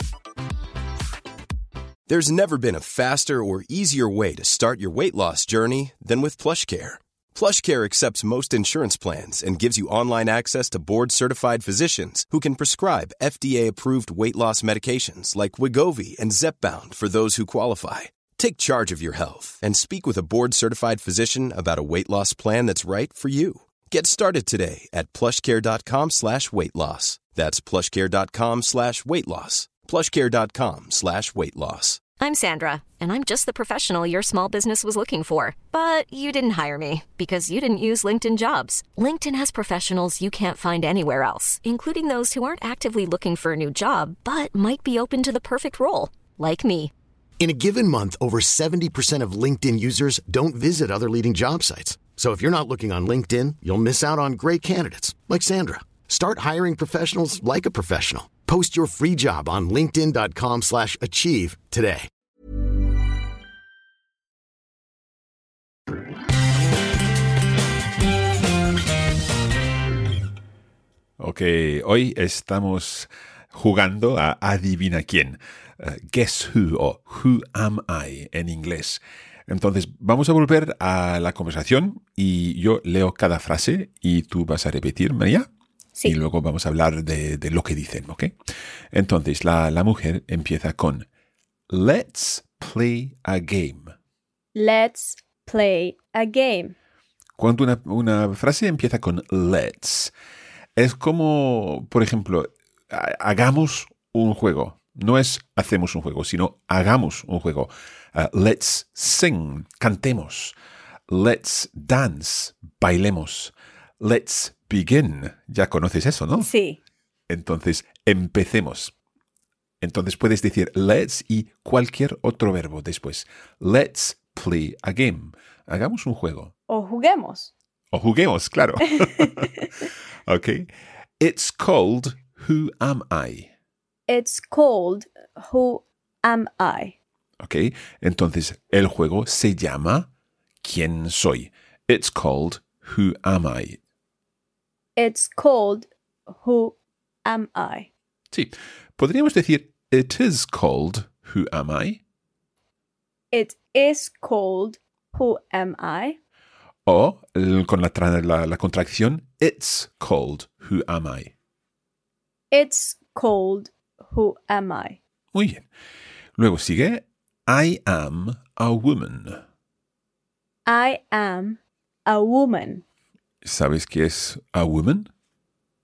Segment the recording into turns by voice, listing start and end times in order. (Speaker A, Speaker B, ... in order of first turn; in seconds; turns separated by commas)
Speaker A: 2.1-32.0, Speaker B: 32.2-46.9, Speaker C: 47.4-62.1, Speaker D: 71.2-85.5, Speaker D: 86.0-88.3, Speaker D: 88.9-91.0, Speaker D: 91.7-93.9, Speaker E: 94.5-96.7, Speaker D: 97.4-100.1, Speaker D: 100.8-110.5, Speaker D: 111.1-116.5, Speaker E: 116.4-116.8, Speaker D: 117.3-118.9, Speaker D: 119.8-126.5, Speaker E: 126.7-127.5, Speaker D: 127.9-130.7, Speaker D: 131.2-133.5, Speaker E: 134.1-136.9, Speaker D: 137.4-140.1, Speaker D: 140.6-143.8, Speaker E: 145.0-147.9, Speaker D: 148.3-152.0, Speaker E: 153.3-156.2, Speaker D: 156.8-161.3, Speaker E: 162.5-165.0, Speaker D: 165.3-165.6, Speaker D: 166.4-169.4, Speaker E: 170.7-172.8, Speaker D: 173.4-175.1